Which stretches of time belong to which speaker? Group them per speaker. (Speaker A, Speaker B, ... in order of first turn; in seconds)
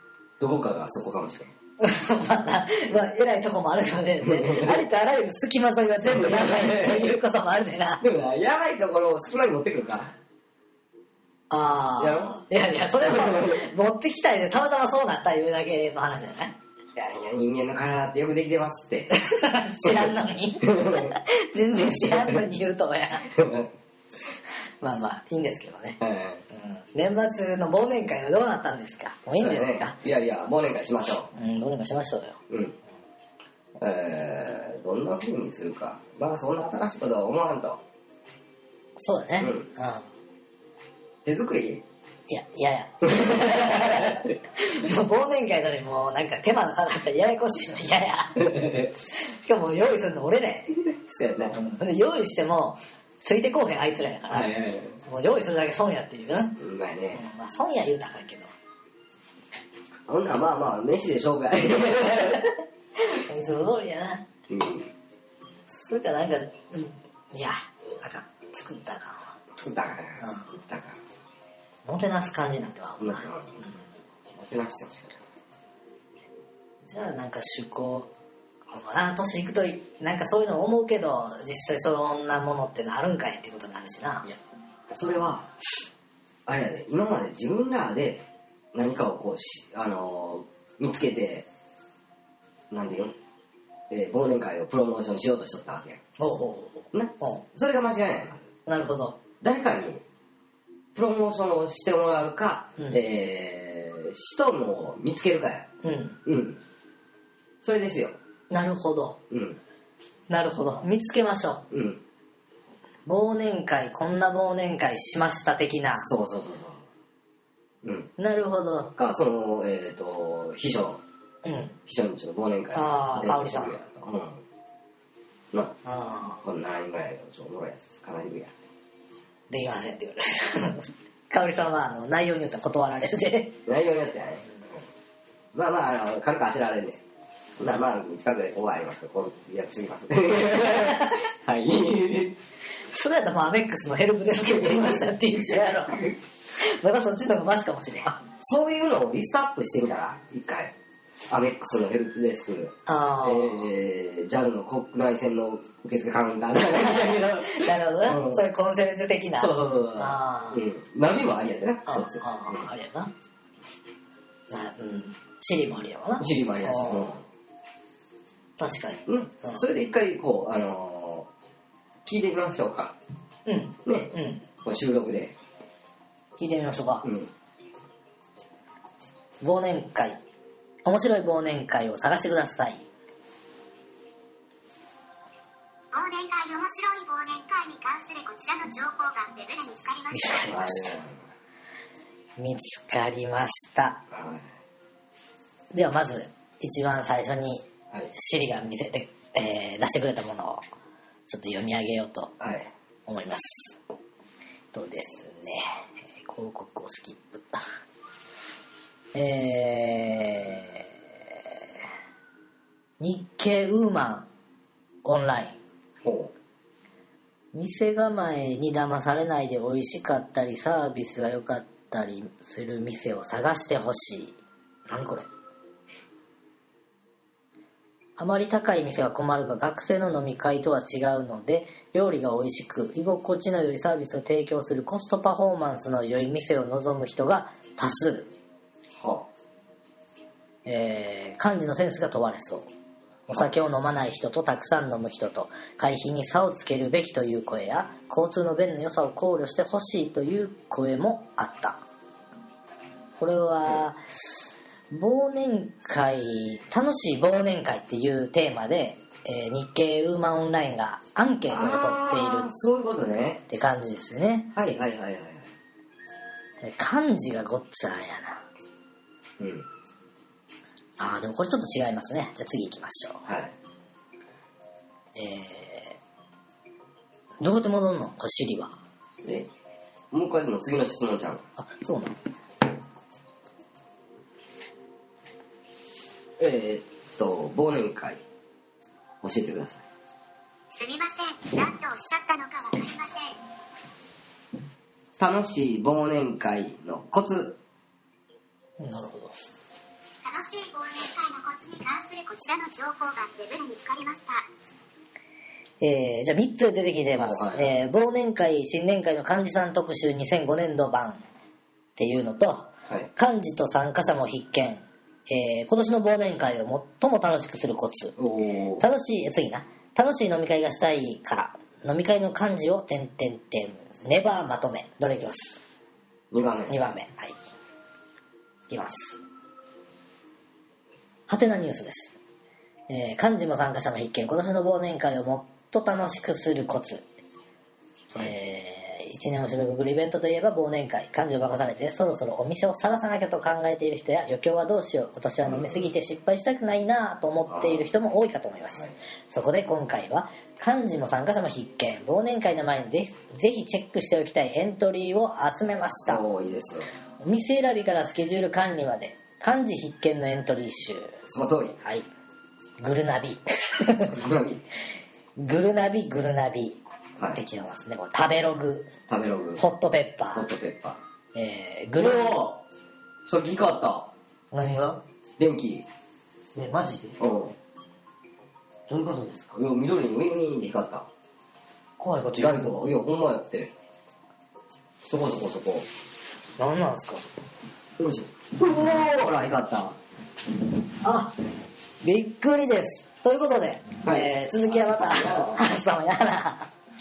Speaker A: 0.4-1.5, 4.2-4.8, 6.0-7.2, 8.0-10.1, 12.0-12.4, 13.0-13.7, 16.9-19.1, 20.6-21.1, 22.1-22.4, 23.3-23.7, 26.0-26.4, 29.4-31.3, 32.5-32.8, 33.8-37.8, 39.4-39.7, 41.2-41.8, 43.1-44.3, 48.4-48.9, 50.9-51.6, 54.3-55.0, 56.6-57.2, 60.1-62.5, 64.5-64.9, 69.5-71.0, 73.0-73.6, 74.3-75.2, 84.9-85.5, 86.5-91.5, 92.7-93.1, 93.9-96.0, 96.9-98.5, 99.4-100.0, 101.0-105.7, 106.2-106.6, 107.6-108.2, 109.3-109.6, 111.7-112.0, 116.1-116.8, 117.8-118.1, 119.0-121.0, 121.9-124.4, 126.4-128.5, 133.7-134.5, 135.5-137.0, 137.6-142.4, 144.5-146.2, 148.1-150.7, 151.3-158.4, 159.4-162.7, 166.2-167.2, 169.1-171.3, 172.1-173.0, 173.8-175.4, 177.0-177.3, 190.5-191.2, 194.1-194.5, 202.4-202.7, 216.0-216.3, 239.0-239.3, 243.3-243.6, 261.5-263.4, 264.6-265.5, 269.4-269.7, 273.3-273.5, 279.2-279.5, 280.1-281.4, 286.4-288.2, 289.2-289.8, 295.2-297.6, 307.1-307.7, 318.2-318.9, 326.3-326.8, 345.4-345.9, 347.5-347.9, 356.1-356.9, 361.2-361.8, 364.1-364.6, 369.1-369.6, 370.3-371.0, 372.0-372.6, 373.3-374.1, 375.4-375.9, 377.2-377.6, 379.6-381.1, 382.4-383.7, 385.1-385.9, 388.0-390.0, 394.0-395.6
Speaker B: 1.8-8.0, 11.5-16.6, 19.1-23.3, 24.8-26.0, 26.5-30.0, 31.3-32.4, 39.0-40.1, 42.3-48.6, 49.1-50.7, 51.5-54.5, 55.1-56.6, 57.1-58.5, 63.0-64.2, 65.7-69.4, 70.2-70.5, 71.9-73.7, 76.8-78.1, 78.7-84.3, 96.2-97.5, 98.7-99.2, 105.8-106.2, 108.5-109.2, 110.3-111.6, 113.1-116.1, 118.2-118.9, 121.5-121.8, 122.7-123.8, 125.8-126.4, 129.5-133.6, 140.5-141.2, 142.9-146.0, 146.6-148.1, 152.9-153.7, 156.8-160.6, 161.9-163.1, 164.5-167.2, 168.6-169.6, 173.5-174.4, 176.4-177.1, 179.4-180.2, 180.8-182.8, 190.1-191.0, 192.4-194.0, 195.7-200.6, 201.3-202.4, 203.1-203.8, 204.7-205.6, 206.2-207.6, 209.1-211.6, 213.0-214.3, 215.1-215.6, 217.5-224.4, 224.9-225.3, 228.2-238.3, 240.7-242.7, 243.3-251.8, 253.2-254.0, 254.9-262.5, 263.5-264.5, 266.6-268.4, 271.0-273.2, 275.1-276.0, 277.4-278.8, 281.6-282.2, 298.8-299.4, 305.8-311.2, 312.0-318.2, 318.8-325.6, 326.7-327.4, 328.7-329.2, 331.3-332.1, 332.9-337.0, 338.1-356.2, 357.2-361.2, 362.8-364.1, 365.4-366.8, 367.4-368.9, 369.6-370.5, 371.4-372.4, 374.5-375.0, 376.6-377.2, 378.9-379.6, 382.0-382.9, 386.6-387.2, 391.0-391.3, 392.0-396.7
Speaker C: 185.9-190.5, 290.7-293.4, 300.2-304.5